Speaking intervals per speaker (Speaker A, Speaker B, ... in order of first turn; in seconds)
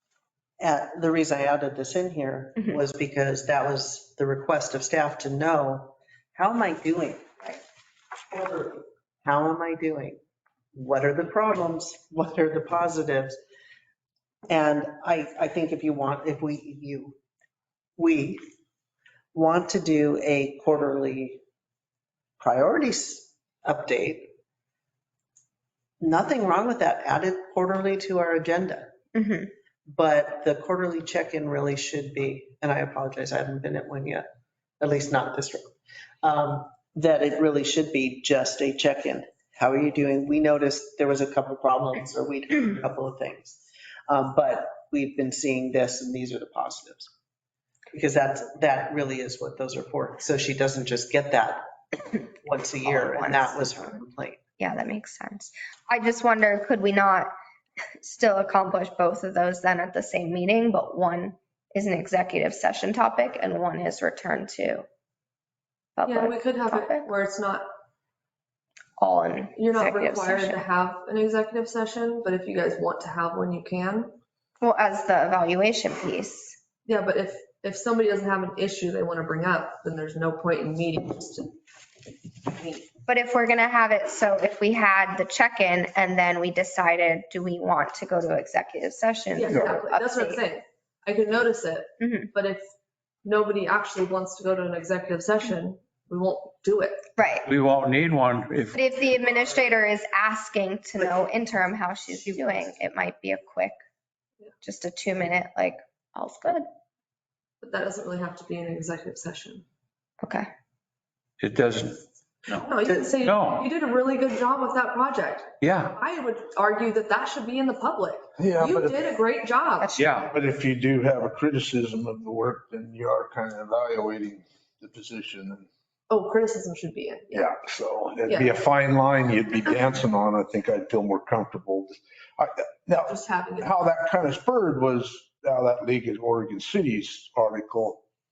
Speaker A: 0.6-7.6, 8.3-10.2, 10.7-13.4, 14.5-17.2, 18.0-18.4, 19.3-21.4, 22.4-24.3, 26.0-28.9, 29.9-34.3, 34.8-47.1, 47.9-54.4, 102.1-102.7
Speaker B: 29.1-29.5, 52.8-53.8, 54.6-57.3, 58.0-64.8, 66.0-67.1, 69.0-70.6, 74.6-76.6, 83.1-90.4, 92.0-92.3, 97.2-97.5, 98.7-103.8, 104.6-106.7, 110.2-110.5, 119.8-120.3
Speaker C: 66.1-67.7, 69.5-74.2, 76.8-81.6, 82.4-82.8, 89.3-92.7, 93.2-97.0, 107.6-109.7, 112.6-120.0, 126.1-127.5, 128.2-128.5, 133.1-133.7
Speaker D: 97.4-98.8, 111.4-112.6, 113.2-113.7, 115.6-116.0, 120.0-120.3
Speaker E: 118.4-119.1, 120.3-125.7, 127.3-138.0